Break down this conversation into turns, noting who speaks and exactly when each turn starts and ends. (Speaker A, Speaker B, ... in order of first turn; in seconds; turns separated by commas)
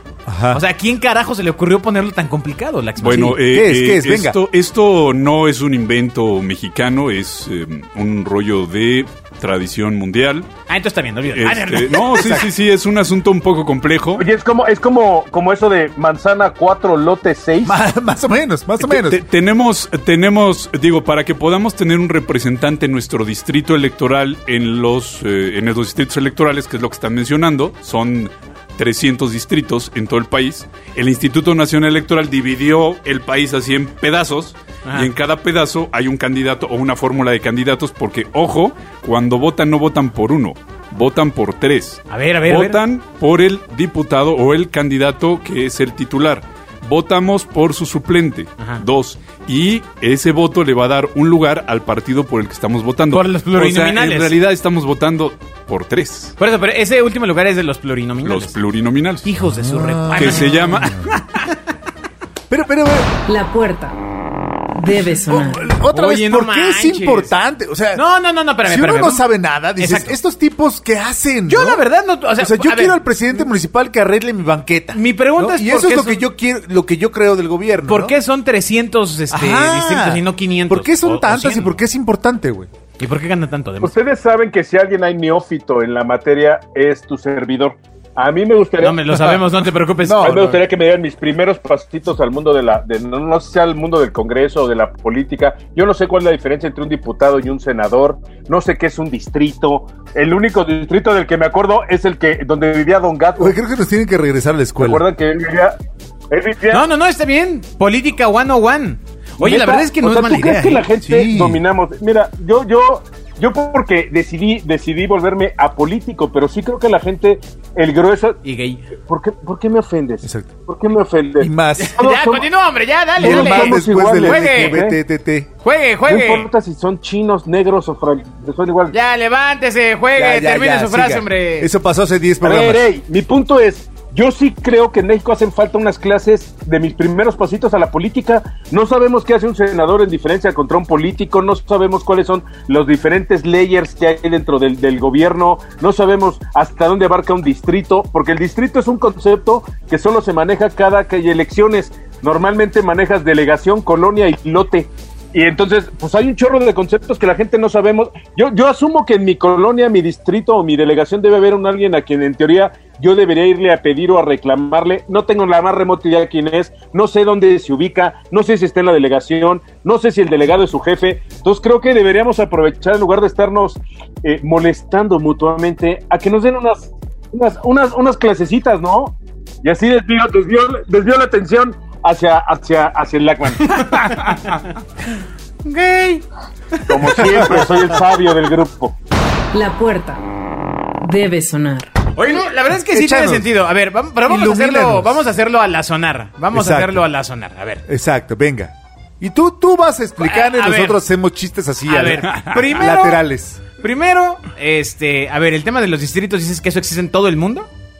Speaker A: 0.2-0.6, Speaker B: 0.5-3.4, Speaker C: 3.0-10.5, Speaker A: 3.0-4.4, Speaker B: 10.7-12.4, Speaker C: 11.3-14.2, Speaker A: 12.1-12.5, Speaker D: 14.2-17.8, Speaker A: 17.6-19.2, Speaker C: 18.8-56.3, Speaker B: 42.1-42.8, Speaker B: 53.1-54.3, Speaker B: 56.4-58.5, Speaker C: 58.2-59.3, Speaker B: 59.2-61.6, Speaker A: 59.4-61.1, Speaker C: 60.1-61.1, Speaker A: 62.5-63.1, Speaker E: 63.3-63.9, Speaker E: 64.7-65.7, Speaker A: 65.2-68.0, Speaker B: 65.9-67.3, Speaker B: 67.9-69.2, Speaker A: 68.6-71.8, Speaker B: 69.8-70.2, Speaker B: 71.5-73.0, Speaker A: 72.4-78.1, Speaker B: 74.9-76.2, Speaker B: 77.9-81.8, Speaker A: 79.3-82.7, Speaker B: 83.0-83.9, Speaker D: 83.8-89.3, Speaker B: 88.8-90.6, Speaker A: 90.0-90.6, Speaker D: 90.2-103.5, Speaker A: 103.4-105.0, Speaker D: 104.8-105.8, Speaker D: 106.3-106.8, Speaker B: 106.7-110.9, Speaker D: 109.4-118.4, Speaker A: 111.0-111.6, Speaker B: 118.4-118.9, Speaker D: 119.0-122.5, Speaker A: 120.2-120.5, Speaker A: 121.4-122.0, Speaker B: 121.8-124.8, Speaker D: 123.2-125.0, Speaker A: 123.2-125.5, Speaker B: 125.6-126.5, Speaker D: 126.0-128.9, Speaker B: 128.9-131.7, Speaker A: 130.2-132.9, Speaker D: 132.4-184.2, Speaker B: 183.7-184.6, Speaker B: 185.6-187.6, Speaker D: 186.9-188.9, Speaker E: 189.5-190.2, Speaker E: 191.0-191.9, Speaker B: 192.2-197.8, Speaker A: 192.9-193.5, Speaker A: 194.2-195.2, Speaker A: 196.5-197.0, Speaker A: 197.8-203.6, Speaker B: 200.2-201.0, Speaker B: 201.8-203.2, Speaker B: 203.8-207.7